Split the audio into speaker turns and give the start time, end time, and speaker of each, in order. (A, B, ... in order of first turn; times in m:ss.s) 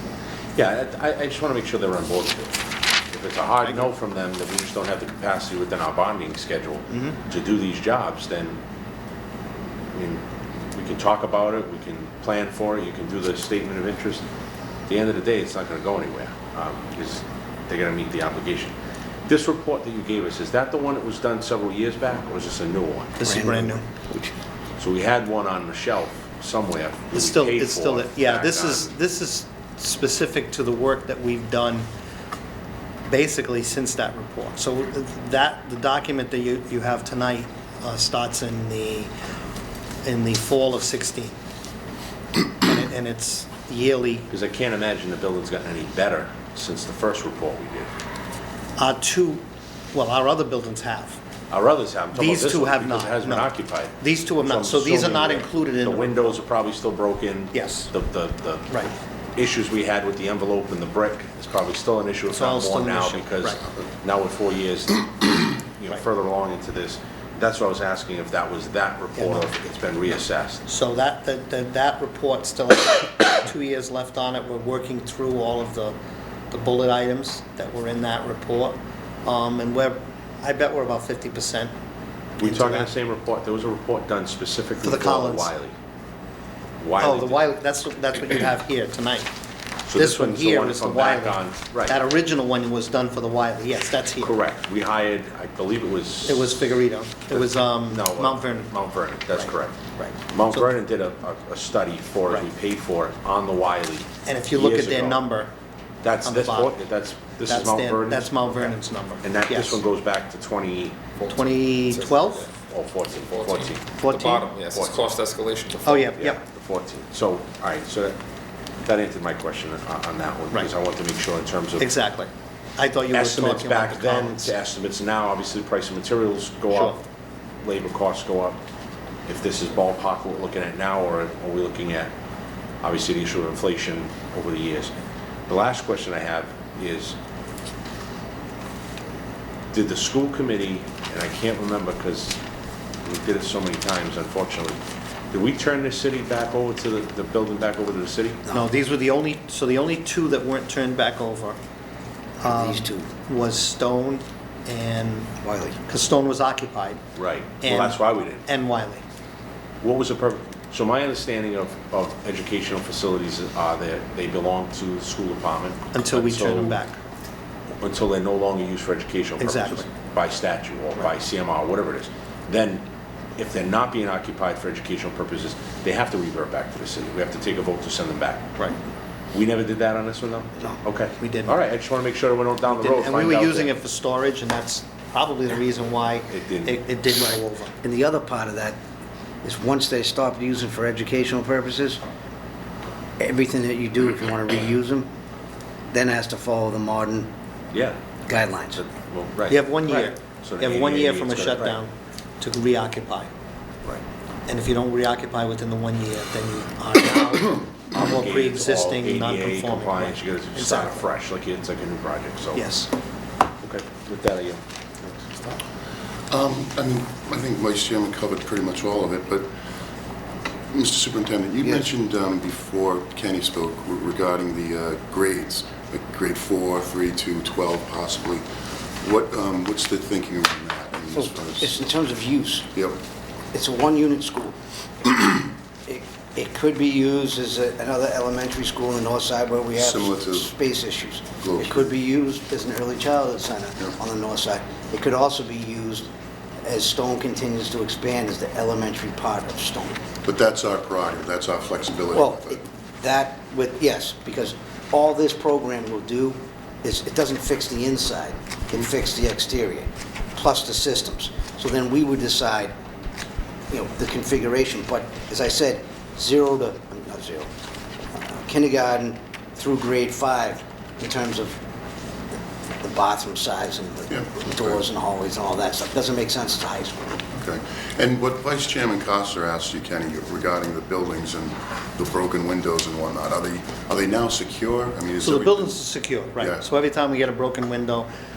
0:00.6-0:08.6 A
0:06.9-0:07.2 B
0:09.9-0:10.2 A
0:10.7-0:14.2 A
0:14.9-0:18.7 A
0:19.3-0:23.2 A
0:23.2-0:23.8 B
0:23.2-0:24.3 C
0:24.8-0:28.9 A
0:27.1-0:31.9 B
0:33.1-0:39.1 B
0:40.0-0:41.4 B
0:42.6-0:44.3 B
0:44.3-0:47.9 A
0:48.8-0:51.2 B
0:51.5-1:10.6 A
0:52.1-0:56.4 B
0:57.5-0:57.9 B
1:02.3-1:03.6 B
1:09.2-1:09.5 B
1:10.6-1:16.0 B
1:16.5-1:21.7 B
1:22.4-1:25.7 A
1:22.4-1:22.9 B
1:24.8-1:25.5 B
1:26.8-1:27.4 A
1:27.0-1:29.3 B
1:29.9-1:32.0 A
1:29.9-1:34.4 B
1:34.2-1:36.6 A
1:36.2-1:38.7 B
1:37.3-1:39.8 A
1:39.3-1:40.8 B
1:40.3-1:45.2 A
1:44.2-1:45.5 B
1:46.0-1:51.0 A
1:46.2-1:46.7 B
1:47.4-1:49.8 B
1:51.2-1:52.5 D
1:51.3-1:52.5 B
1:52.6-1:54.0 A
1:53.1-1:56.2 D
1:53.9-1:54.5 B
1:54.7-1:55.0 A
1:55.8-1:56.4 B
1:56.2-1:58.2 A
1:58.8-2:02.0 A
2:01.8-2:04.5 B
2:03.1-2:07.0 A
2:06.7-2:07.0 B
2:07.6-2:08.6 A
2:09.3-2:12.1 A
2:12.8-2:14.9 A
2:15.5-2:17.2 A
2:19.7-2:22.4 A
2:23.0-2:24.8 A
2:25.3-2:28.4 A
2:28.5-2:31.6 B
2:32.4-2:33.1 C
2:32.4-2:35.3 B
2:35.4-2:35.8 C
2:35.8-2:37.0 B
2:37.2-2:38.4 A
2:37.6-2:39.0 B
2:39.8-2:46.8 A
2:45.9-2:47.0 B
2:47.8-2:58.6 A
2:49.4-2:49.9 B
2:59.3-3:03.7 A
3:01.2-3:01.6 B
3:02.7-3:07.7 B
3:06.3-3:06.8 A
3:07.8-3:08.8 C
3:09.4-3:12.0 C
3:13.2-3:15.1 C
3:15.9-3:17.3 C
3:17.7-3:18.0 A
3:18.3-3:18.8 C
3:18.7-3:21.8 A
3:19.5-3:23.3 B
3:24.5-3:31.1 B
3:27.9-3:32.7 A
3:32.5-3:32.9 B
3:33.6-3:35.6 A
3:36.3-3:39.5 E
3:40.7-3:48.4 E
3:49.0-3:51.8 E
3:51.6-3:52.7 C
3:52.7-3:53.0 E
3:53.5-3:54.6 C
3:55.9-4:06.1 C
3:59.8-4:00.6 E
4:01.4-4:01.9 E
4:06.6-4:10.0 C
4:10.2-4:12.6 E
4:12.1-4:22.7 C
4:23.7-4:27.5 C
4:28.1-4:31.6 C
4:32.8-4:37.0 C
4:34.1-4:34.8 E
4:37.3-4:45.8 E
4:45.2-4:48.1 B
4:46.4-4:46.6 E